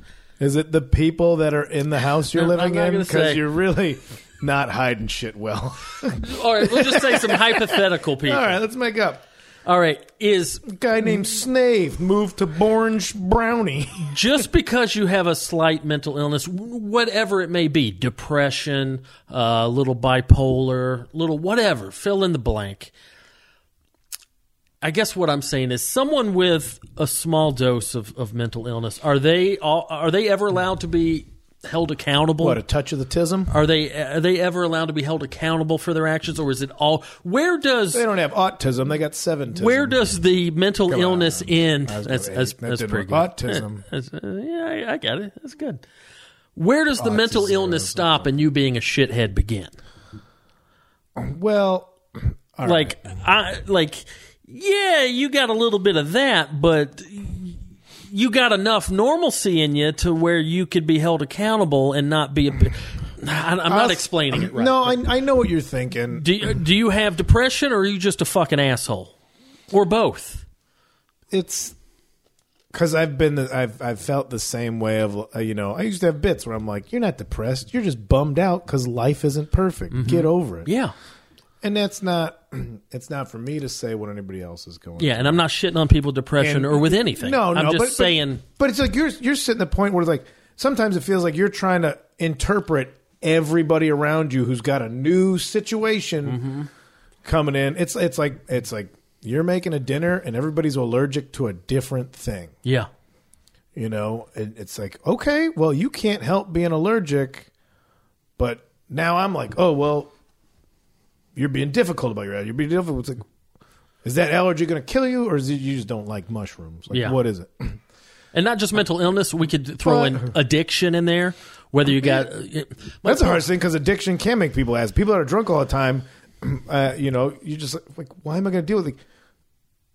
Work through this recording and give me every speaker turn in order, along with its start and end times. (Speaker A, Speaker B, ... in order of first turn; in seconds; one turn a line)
Speaker A: 0.4-9.2
Speaker B: 2.3-3.4
Speaker B: 6.2-8.6
Speaker B: 9.7-10.7
Speaker A: 10.7-14.2
Speaker B: 14.0-22.9
Speaker B: 24.8-32.6
Speaker A: 32.4-33.5
Speaker B: 33.5-38.0
Speaker A: 37.9-40.1
Speaker B: 39.5-45.8
Speaker A: 40.9-43.9
Speaker B: 46.5-49.7
Speaker A: 47.0-48.2
Speaker A: 51.1-53.0
Speaker B: 52.6-65.0
Speaker A: 63.6-66.5
Speaker B: 66.1-69.1
Speaker B: 69.7-70.4
Speaker A: 71.3-71.8
Speaker A: 72.7-80.7
Speaker B: 79.9-80.9
Speaker A: 81.6-85.4
Speaker B: 85.0-88.4
Speaker A: 86.4-96.4
Speaker B: 96.2-96.7
Speaker A: 97.2-102.5
Speaker A: 103.7-107.5
Speaker A: 108.4-110.1
Speaker A: 111.3-113.2
Speaker A: 114.0-117.8
Speaker B: 116.9-117.2
Speaker B: 118.3-123.4
Speaker A: 119.8-120.3
Speaker A: 121.8-122.3
Speaker A: 123.0-129.0